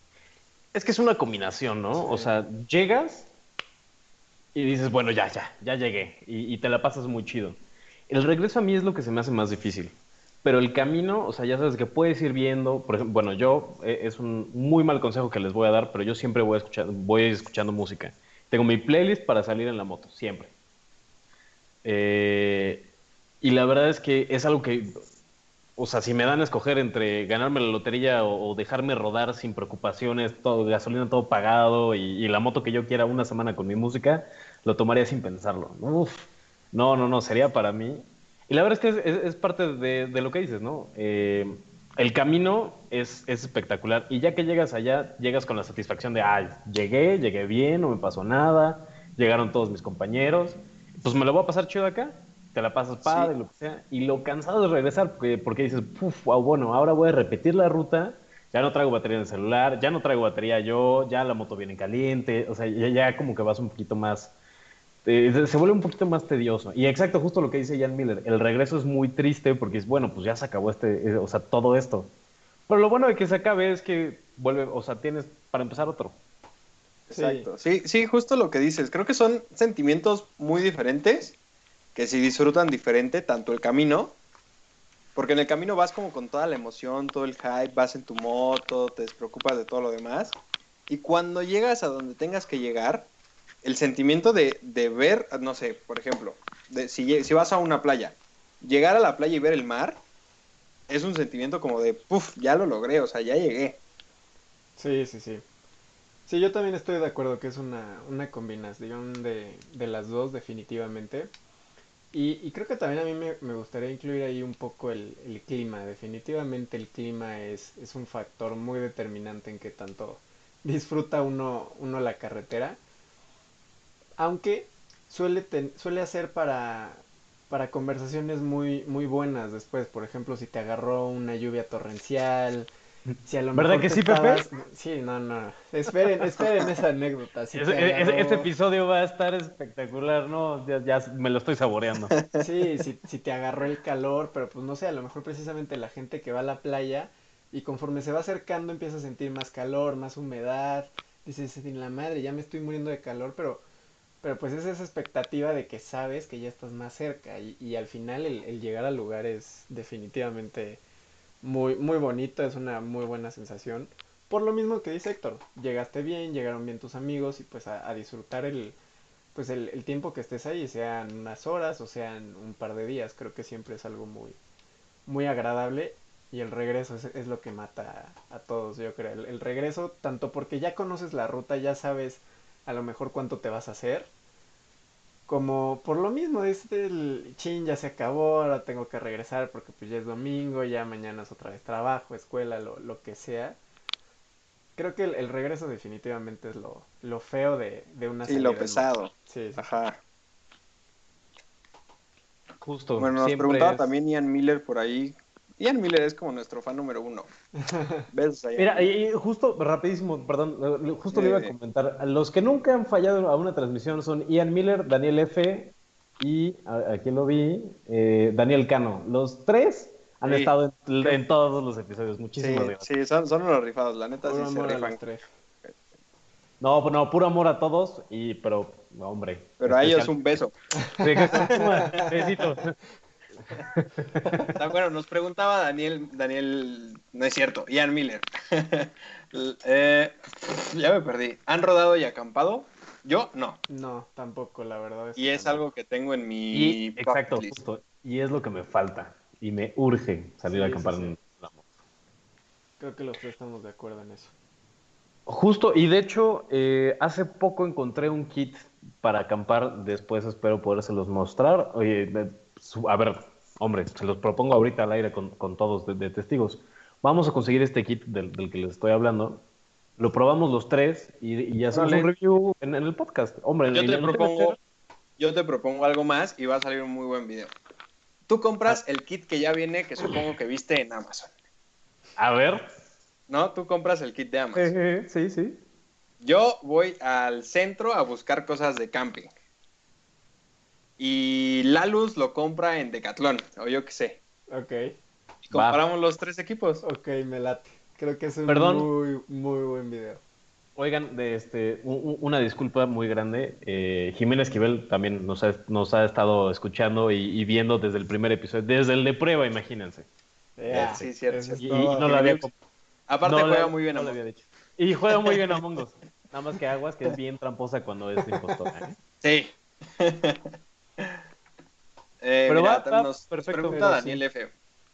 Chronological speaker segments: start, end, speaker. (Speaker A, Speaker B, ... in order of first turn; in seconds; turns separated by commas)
Speaker A: 0.7-3.3, Speaker B: 2.0-2.3, Speaker A: 4.5-7.6, Speaker A: 8.1-20.5, Speaker A: 21.8-22.9, Speaker A: 23.4-25.0, Speaker A: 25.8-64.3, Speaker C: 53.0-53.3, Speaker A: 65.0-72.1, Speaker A: 72.7-76.2, Speaker C: 77.1-81.4, Speaker B: 77.1-77.5, Speaker C: 82.0-84.2, Speaker C: 85.2-90.4, Speaker C: 90.9-93.1, Speaker C: 93.6-100.0, Speaker C: 100.9-103.8, Speaker B: 104.8-105.4, Speaker B: 106.3-111.3, Speaker B: 112.1-122.8, Speaker B: 124.2-132.7, Speaker B: 133.2-138.5, Speaker A: 133.5-134.5, Speaker A: 137.5-142.1, Speaker C: 142.1-142.4, Speaker B: 142.4-153.6, Speaker B: 154.2-160.8, Speaker B: 161.4-168.8, Speaker B: 169.3-174.4, Speaker B: 175.1-184.1, Speaker B: 185.3-193.6, Speaker B: 194.8-199.7, Speaker C: 198.3-200.0, Speaker A: 202.6-203.9, Speaker C: 203.0-207.3, Speaker B: 207.6-208.1, Speaker C: 208.1-208.9, Speaker A: 208.6-222.9, Speaker C: 211.1-211.6, Speaker C: 220.2-220.5, Speaker C: 222.4-225.0, Speaker B: 224.2-225.3, Speaker A: 226.6-230.1, Speaker C: 229.6-230.6, Speaker B: 230.9-232.1, Speaker A: 231.0-232.8, Speaker C: 231.3-232.2, Speaker A: 233.5-234.5, Speaker B: 234.2-234.5, Speaker C: 234.5-243.6, Speaker B: 243.7-245.7, Speaker C: 245.2-247.6, Speaker A: 246.5-251.6, Speaker B: 250.5-251.2, Speaker B: 252.8-254.3, Speaker A: 255.3-269.4, Speaker A: 270.0-274.6, Speaker C: 271.7-272.1, Speaker C: 273.7-274.6, Speaker C: 275.2-277.5, Speaker C: 278.3-281.3, Speaker A: 282.2-282.7, Speaker C: 283.3-284.7, Speaker A: 284.6-285.6, Speaker C: 286.2-289.3, Speaker C: 291.0-294.2, Speaker B: 294.5-294.9, Speaker C: 295.4-296.8, Speaker A: 295.5-295.8, Speaker B: 296.8-300.2, Speaker A: 298.5-298.9, Speaker A: 300.8-310.1, Speaker B: 310.6-312.1, Speaker A: 310.7-311.1, Speaker C: 310.7-312.5, Speaker A: 311.6-312.5, Speaker C: 313.1-314.2, Speaker A: 313.2-318.9, Speaker B: 318.5-318.9, Speaker C: 319.2-321.1, Speaker C: 322.2-324.5, Speaker A: 322.5-324.2